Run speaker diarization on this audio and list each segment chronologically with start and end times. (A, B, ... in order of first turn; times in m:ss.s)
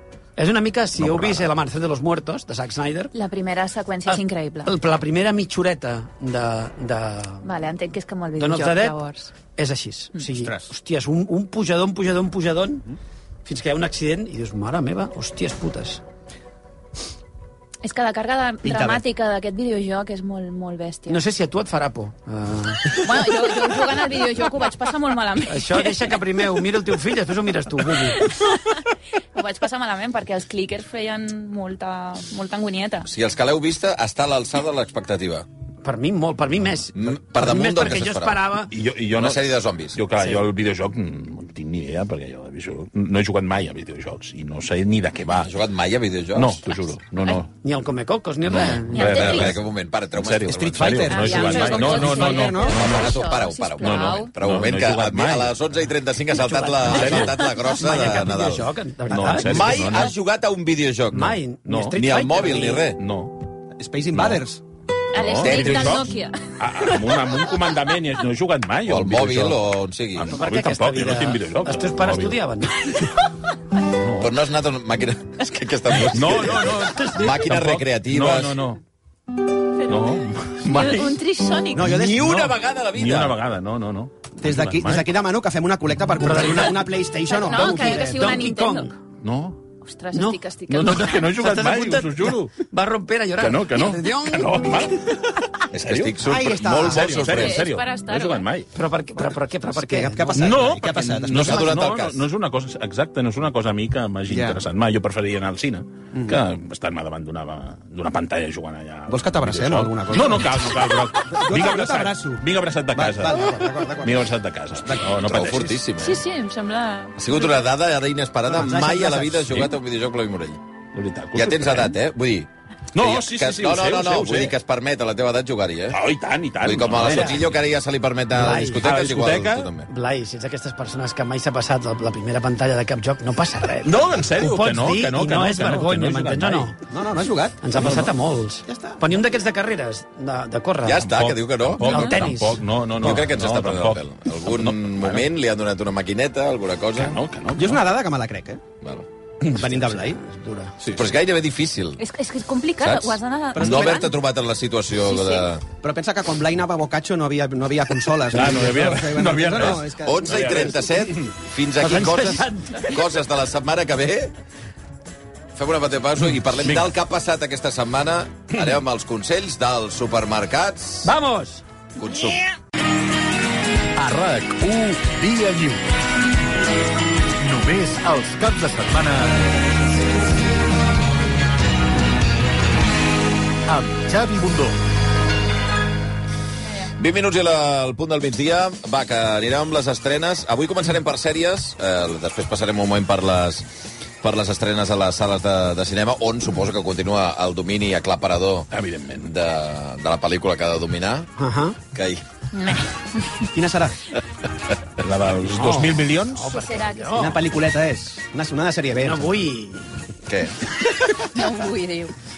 0:00.4-0:03.1 A
0:01.0-0:01.5 B
0:03.1-0:04.7 C
0:04.1-0:07.5 A
0:07.4-0:09.3 C
0:08.4-0:09.0 A
0:09.6-0:12.8 A
0:10.3-0:10.7 D
0:13.4-0:16.0 A
0:17.8-0:21.2 C
0:18.6-0:19.0 D
0:21.1-0:23.1 A
0:22.9-0:26.1 C
0:25.5-0:28.3 A
0:28.2-0:28.8 C
0:29.3-0:33.1 C
0:33.0-0:35.4 E
0:35.8-0:38.7 A
0:36.9-0:38.5 E
0:38.7-0:45.5 B
0:39.1-0:40.0 E
0:40.2-0:40.4 A
0:45.4-0:46.6 E
0:46.3-0:47.5 B
0:47.6-0:49.3 A
0:48.5-0:49.6 B
0:48.9-0:49.5 C
0:49.0-0:58.7 E
0:50.2-0:53.1 B
0:50.5-0:53.0 D
0:51.1-0:54.3 C
0:53.8-0:55.6 B
0:56.3-0:59.8 A
0:56.8-0:57.3 B
0:59.1-1:00.1 B
0:59.4-1:01.4 E
1:01.1-1:02.8 A
1:01.6-1:02.0 B
1:02.0-1:03.0 E
1:03.0-1:03.4 B
1:03.8-1:04.6 D
1:04.1-1:04.4 B
1:05.1-1:07.2 C
1:05.1-1:09.6 B
1:05.4-1:06.0 E
1:08.8-1:10.4 E
1:10.1-1:12.4 B
1:10.3-1:13.1 A
1:14.0-1:14.3 B
1:14.2-1:18.6 E
1:16.0-1:18.8 B
1:16.9-1:17.3 A
1:19.8-1:21.9 C
1:19.9-1:21.2 B
1:21.7-1:22.5 D
1:21.8-1:23.4 E
1:22.2-1:25.1 B
1:24.4-1:28.3 D
1:26.2-1:26.8 A
1:27.3-1:28.9 C
1:27.4-1:29.0 A
1:29.2-1:29.6 B
1:29.8-1:31.3 C
1:30.1-1:34.9 A
1:30.7-1:32.5 B
1:33.4-1:38.7 B
1:35.7-1:37.6 E
1:36.2-1:37.5 D
1:37.2-1:38.5 C
1:38.7-1:40.6 A
1:39.7-1:41.9 D
1:40.4-1:55.8 B
1:41.3-1:42.2 E
1:44.3-1:44.6 D
1:46.1-1:46.4 D
1:49.1-1:55.3 D
1:55.2-1:56.2 E
1:56.0-1:57.6 C
1:57.2-2:00.6 E
1:58.5-1:59.7 D
2:00.9-2:02.0 B
2:01.3-2:06.1 E
2:02.9-2:04.6 B
2:05.9-2:07.6 B
2:06.6-2:09.9 E
2:07.0-2:07.3 A
2:08.3-2:08.8 A
2:08.8-2:09.7 B
2:09.9-2:16.8 A
2:13.8-2:16.7 B
2:16.9-2:18.0 D
2:17.6-2:21.2 A
2:18.7-2:19.1 D
2:20.8-2:22.3 E
2:21.0-2:25.3 B
2:21.8-2:23.1 A
2:23.0-2:27.2 E
2:27.0-2:27.8 B
2:27.6-2:28.6 D
2:29.5-2:30.2 D
2:29.6-2:30.7 A
2:30.9-2:32.0 E
2:32.0-2:34.1 C
2:32.8-2:35.6 E
2:33.5-2:34.1 D
2:35.0-2:35.5 C
2:35.8-2:40.8 D
2:38.3-2:41.3 B
2:40.0-2:44.3 E
2:41.8-2:43.0 A
2:45.5-2:51.1 E
2:46.6-2:46.9 B
2:51.0-2:51.6 A
2:52.0-2:52.4 E
2:54.0-2:55.9 F
2:57.4-2:59.5 F
3:03.7-3:04.8 F
3:07.0-3:13.7 E
3:14.2-3:21.3 E
3:18.7-3:19.3 B
3:21.4-3:21.8 A
3:21.9-3:22.2 E
3:22.5-3:23.2 C
3:23.5-3:24.0 D
3:25.0-3:26.5 B
3:25.4-3:27.4 A
3:26.5-3:27.4 C
3:27.2-3:29.4 D
3:29.0-3:29.9 A
3:30.2-3:30.6 E
3:31.2-3:32.1 C